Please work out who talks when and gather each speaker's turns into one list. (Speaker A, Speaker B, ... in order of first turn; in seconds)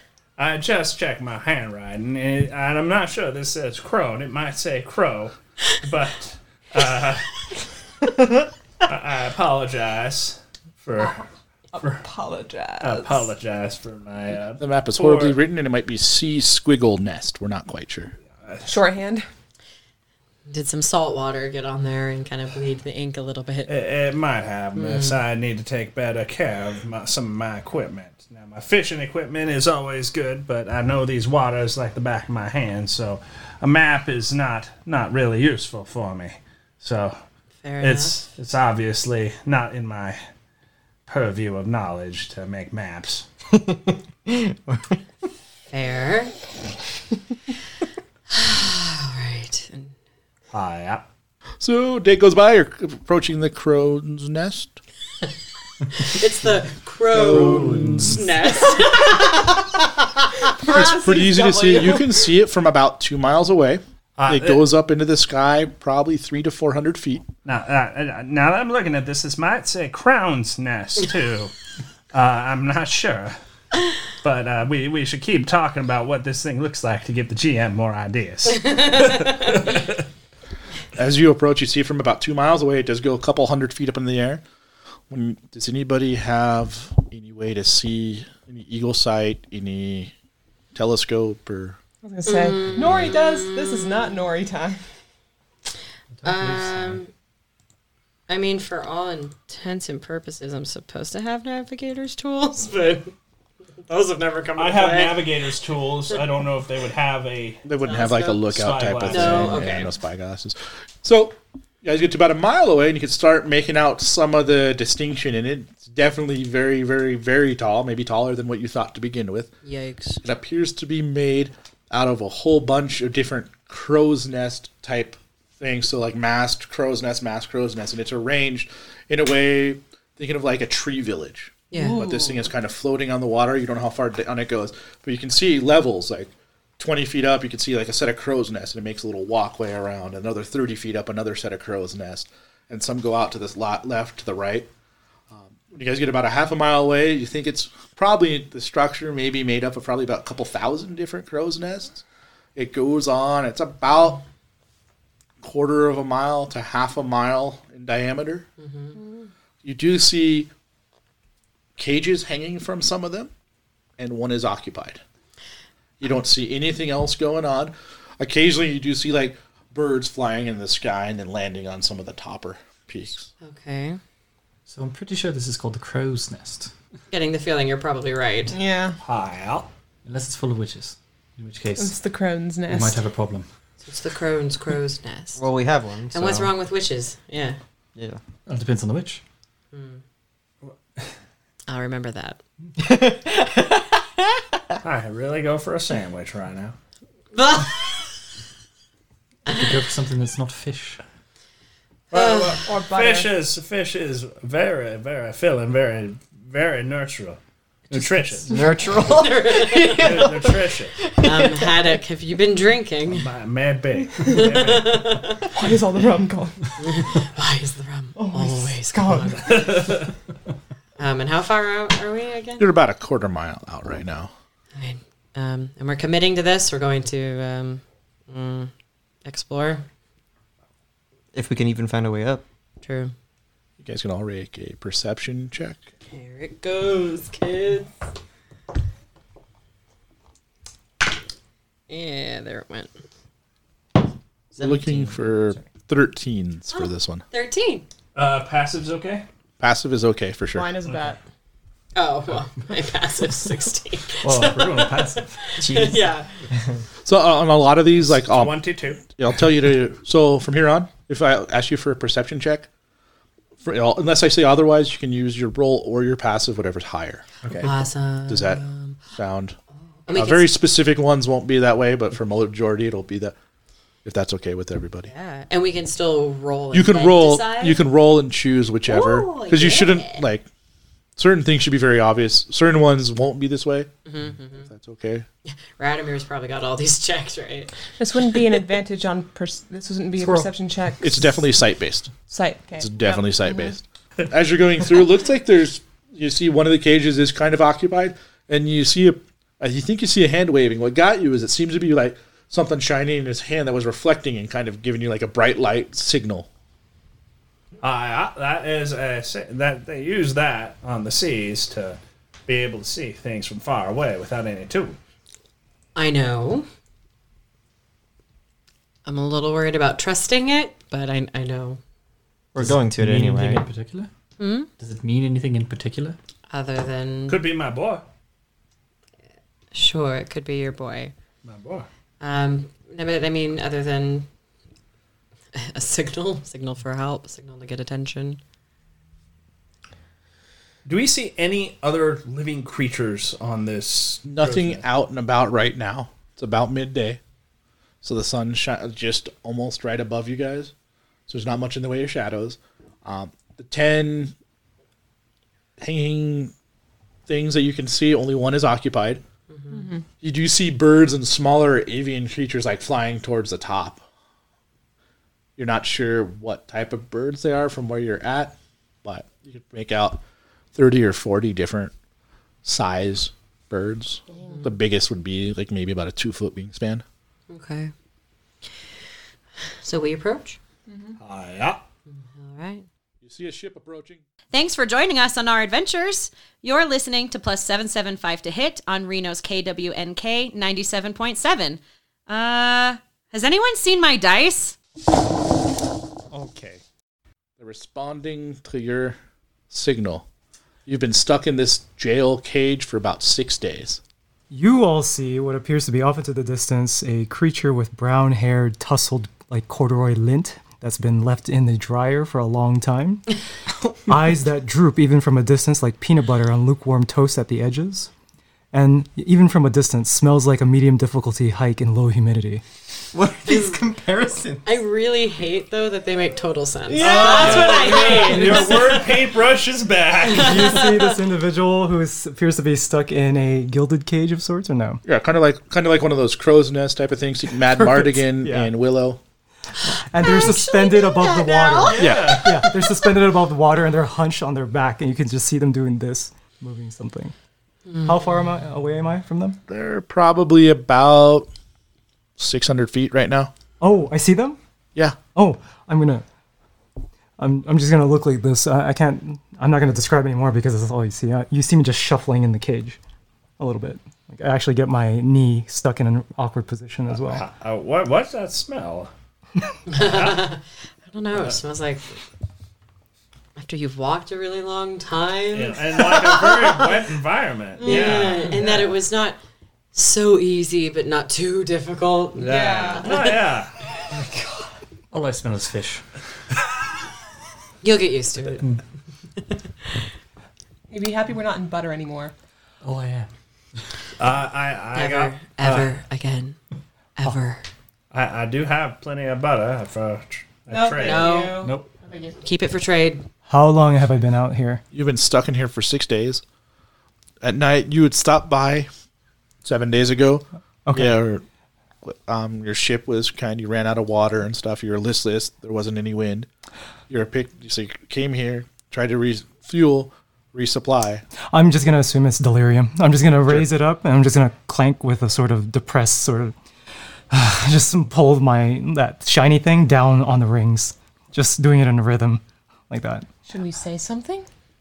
Speaker A: 0.4-7.3, 8.8-11.2, 12.8-15.4, 23.7-37.2, 37.8-40.2, 41.1-43.2, 50.5-51.0, 64.2-64.7, 67.4-71.5, 72.1-73.4, 74.0-80.0, 104.5-107.6, 108.5-109.8, 179.0-179.7, 194.8-196.8, 202.1-208.6, 210.0-210.9, 213.1-215.1, 219.4-220.1, 248.1-249.2, 258.0-259.0, 307.8-315.0, 327.3-328.0, 331.4-331.9, 340.8-344.8, 381.2-381.8, 396.3-396.8, 426.9-430.9, 442.0-442.6, 467.2-469.1, 469.9-470.5, 475.5-478.9, 482.4-483.7, 494.2-495.9, 498.1-501.4
Speaker B: 11.7-13.3, 18.6-19.3, 60.6-62.1, 92.0-94.8, 131.7-132.4, 159.0-159.2, 178.5-179.0, 181.7-183.0, 202.6-203.3, 208.0-208.6, 214.2-214.6, 215.4-216.7, 218.2-219.6, 250.5-251.2, 288.0-291.4, 292.3-293.7, 359.7-360.0, 380.9-381.2, 426.9-429.0, 482.4-483.2, 490.9-492.3, 500.7-502.4, 533.5-534.5
Speaker C: 14.6-18.1, 51.6-54.8, 57.1-58.2, 60.6-67.2, 81.0-84.4, 85.1-90.1, 90.7-91.8, 107.7-119.5, 120.2-144.7, 145.3-152.0, 152.5-154.2, 155.4-158.4, 159.6-160.5, 161.8-163.3, 164.0-165.0, 166.0-173.3, 222.6-224.3, 233.8-235.8, 244.6-247.2, 249.6-250.8, 257.0-262.7, 263.6-267.3, 268.3-269.6, 270.1-273.3, 274.0-275.1, 276.7-280.5, 281.2-283.9, 284.5-285.2, 291.0-292.1, 292.8-306.5, 344.3-347.2, 348.0-350.7, 351.3-354.3, 355.8-356.5, 357.3-359.2, 360.2-364.0, 365.6-370.2, 370.7-371.9, 372.6-377.0, 383.2-384.2, 397.6-399.2, 399.7-400.2, 400.9-404.0, 435.0-439.2, 442.0-442.5, 449.7-451.5, 452.4-453.5, 504.9-506.4, 507.4-508.9, 509.6-511.4, 512.0-516.5, 517.1-521.2
Speaker D: 20.5-23.7, 24.8-25.2, 37.6-38.3, 45.7-46.3, 48.3-49.9, 55.9-59.5, 78.7-79.6, 92.2-93.9, 96.2-97.1, 98.3-103.1, 103.9-105.3, 107.8-108.4, 109.0-109.9, 119.6-120.2, 131.7-132.0, 158.6-159.0, 173.4-174.0, 177.1-178.6, 183.8-185.4, 186.1-187.6, 189.7-190.0, 191.7-192.4, 197.3-198.1, 202.1-202.6, 209.0-210.3, 211.2-213.3, 214.4-215.4, 216.8-219.5, 221.0-222.7, 224.8-228.7, 229.2-229.8, 232.8-233.1, 236.1-237.9, 241.9-242.9, 246.7-247.8, 251.9-256.3, 267.6-269.0, 270.0-270.5, 275.0-277.8, 278.9-280.2, 284.1-284.7, 285.4-287.8, 315.9-316.6, 319.1-321.8, 324.4-324.7, 326.5-327.4, 329.7-331.1, 332.2-334.3, 335.5-338.4, 377.5-377.9, 379.8-380.6, 382.1-382.9, 424.6-429.1, 430.3-431.1, 440.2-442.0, 447.9-448.1, 469.9-472.2, 473.6-476.1, 477.8-479.4, 479.9-483.3, 487.8-488.6, 494.9-496.6, 497.2-497.6, 501.0-501.7, 502.4-503.2
Speaker E: 43.5-45.0, 185.3-186.5, 192.8-193.7, 208.5-212.0, 231.3-232.4, 244.5-245.6, 255.6-256.0, 322.5-323.6, 423.1-424.6
Speaker F: 57.3-58.2, 96.2-97.0, 174.7-176.7, 180.0-181.9, 182.7-183.5, 188.5-189.2, 199.5-201.0, 254.2-255.7, 267.4-267.7, 290.2-290.5, 322.6-324.1, 324.8-326.2, 485.1-486.0, 488.5-488.8, 492.8-493.3, 501.6-501.9
Speaker G: 384.5-394.7
Speaker H: 404.5-413.2, 414.1-418.1, 418.7-422.6, 430.3-435.0, 437.7-438.7, 440.0-447.3, 448.0-449.6, 453.8-454.6, 455.3-456.2, 457.4-463.0, 463.6-467.4, 503.5-504.8, 510.9-511.2, 521.5-526.5, 527.3-533.3